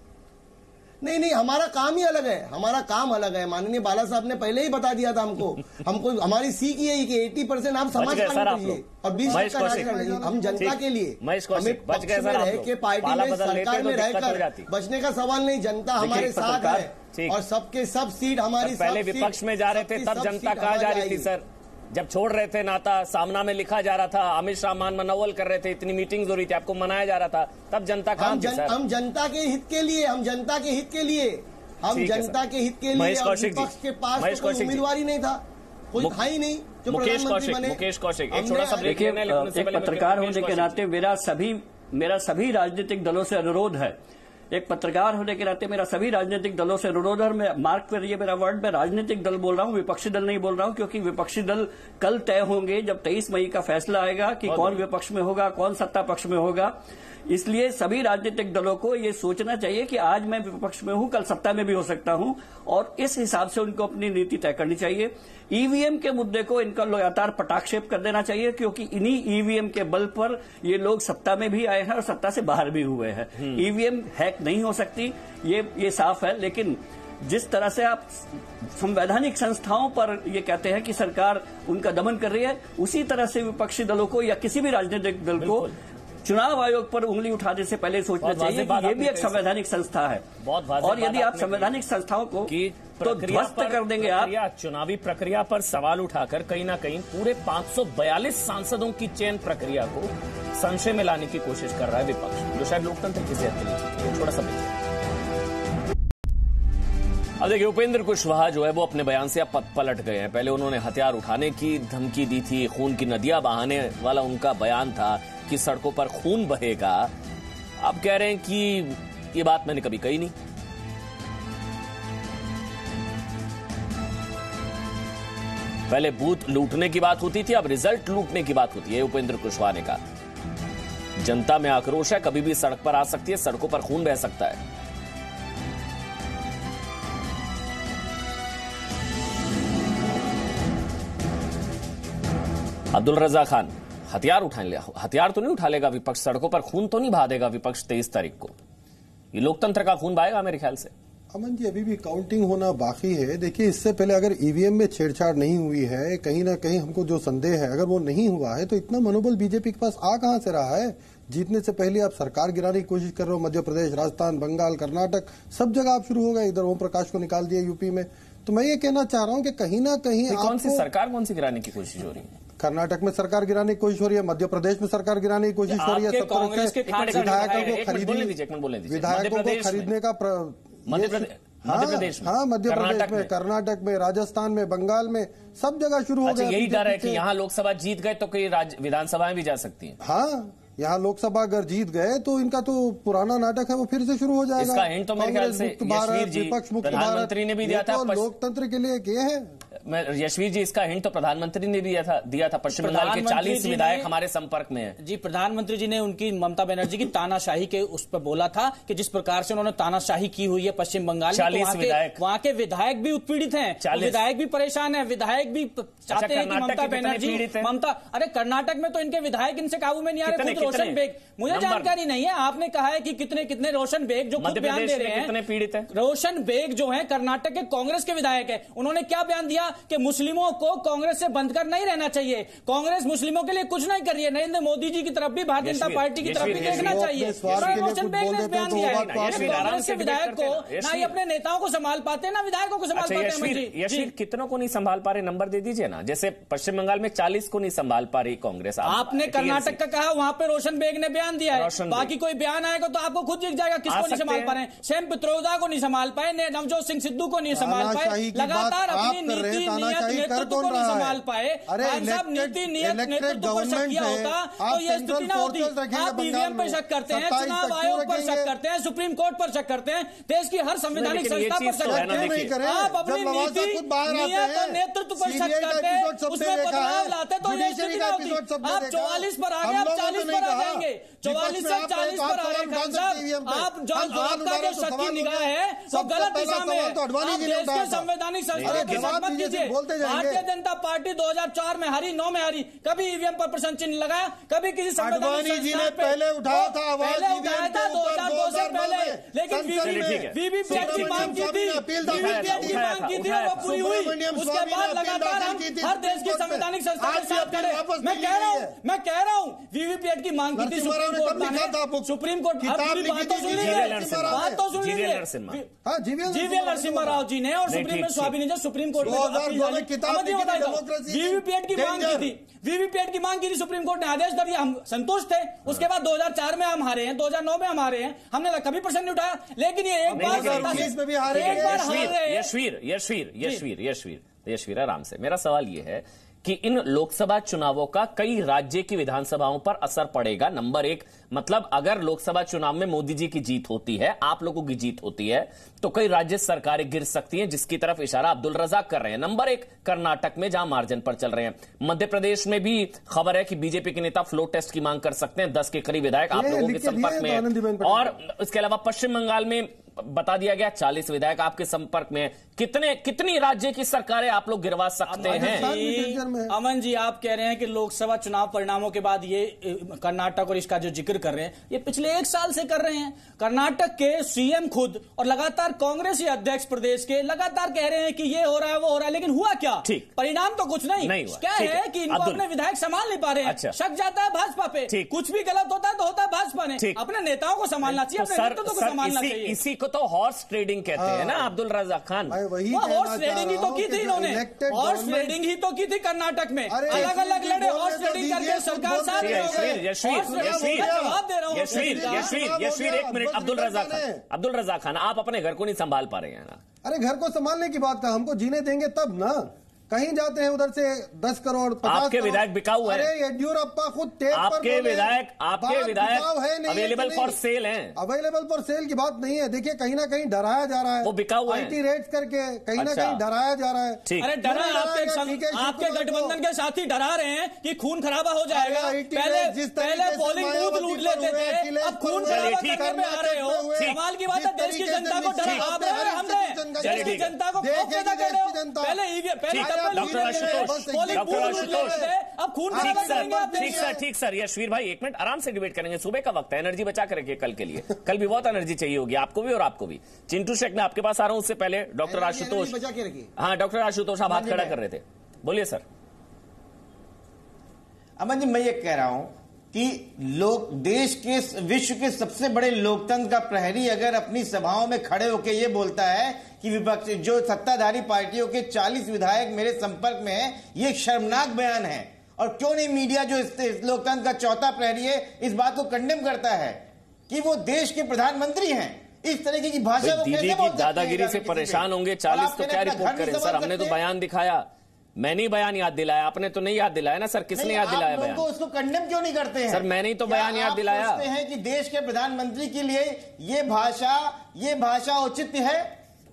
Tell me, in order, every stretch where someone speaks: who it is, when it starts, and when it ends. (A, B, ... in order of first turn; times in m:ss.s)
0:01.0-0:21.3 A
0:08.0-0:09.9 B
0:09.1-0:10.8 C
0:10.6-0:14.7 B
0:16.0-0:16.8 D
0:16.0-0:17.4 B
0:18.6-0:28.8 B
0:28.2-0:39.0 A
0:31.9-0:32.4 B
0:32.9-0:34.9 B
0:36.0-0:36.2 B
0:36.9-0:40.8 B
0:38.8-0:44.0 D
0:44.5-0:56.7 D
0:54.4-0:54.8 B
0:57.3-1:25.7 D
1:25.4-1:25.7 B
1:26.2-1:30.2 D
1:28.2-1:29.4 B
1:30.4-1:31.7 B
1:30.8-1:32.5 D
1:32.5-1:44.8 B
1:33.0-1:34.3 D
1:47.4-1:57.1 B
1:57.8-2:00.3 B
2:05.9-2:10.0 B
2:11.2-2:14.6 B
2:22.9-2:28.5 B
2:29.3-2:30.9 B
2:31.3-2:50.9 C
2:50.3-2:52.3 B
2:52.6-2:58.4 C
2:55.7-2:58.0 E
2:56.8-2:59.9 B
2:58.9-3:07.2 C
3:00.9-3:03.3 B
3:06.3-3:10.0 B
3:10.0-3:19.6 C
3:14.6-3:18.3 B
3:19.8-3:25.0 B
3:22.8-3:24.1 E
3:25.0-3:45.4 E
3:31.3-3:32.2 B
3:33.8-3:34.2 B
3:36.1-3:37.7 B
3:40.2-3:41.9 B
3:44.4-3:45.9 B
3:45.9-4:04.1 E
3:55.6-3:57.9 B
3:56.3-3:59.7 C
3:58.7-4:01.2 B
4:02.9-4:09.8 B
4:08.8-5:15.7 E
4:11.5-4:12.1 B
4:13.9-4:14.6 B
4:17.5-4:28.5 C
4:30.9-4:32.5 B
4:31.8-4:48.1 C
4:48.5-4:49.2 B
4:48.6-4:50.4 C
4:55.0-5:02.9 C
4:59.8-5:01.4 B
5:02.0-5:03.7 B
5:03.5-5:08.8 C
5:10.6-5:14.6 C
5:13.4-5:15.6 B
5:15.8-5:17.2 C
5:16.3-5:32.5 E
5:17.7-5:18.4 B
5:19.0-5:22.4 C
5:30.1-5:32.1 C
5:30.1-6:05.7 B
5:56.3-5:58.2 C
6:05.1-6:29.6 E
6:05.2-6:06.5 C
6:19.8-6:20.1 B
6:21.0-6:22.4 B
6:23.4-6:23.8 B
6:24.9-6:25.1 B
6:27.8-6:32.4 B
6:31.0-6:31.5 C
6:32.3-6:35.4 C
6:32.7-6:42.4 E
6:36.7-6:44.2 C
6:39.2-6:41.0 B
6:41.5-6:46.6 B
6:46.8-6:57.4 C
6:51.8-6:53.1 B
6:54.3-6:58.0 B
6:58.0-7:06.4 C
7:01.0-7:01.8 B
7:02.8-7:03.2 B
7:04.1-7:04.3 B
7:04.2-7:24.0 E
7:08.5-7:19.0 C
7:12.3-7:12.9 B
7:15.4-7:15.7 B
7:16.8-7:17.3 B
7:19.5-7:22.1 B
7:19.6-7:22.1 C
7:22.7-7:24.0 C
7:22.7-7:32.8 B
7:32.1-7:33.3 A
7:33.4-7:35.8 B
7:34.3-7:34.8 F
7:38.2-8:04.0 F
8:00.0-8:08.5 B
8:07.6-8:16.0 F
8:09.7-8:11.3 B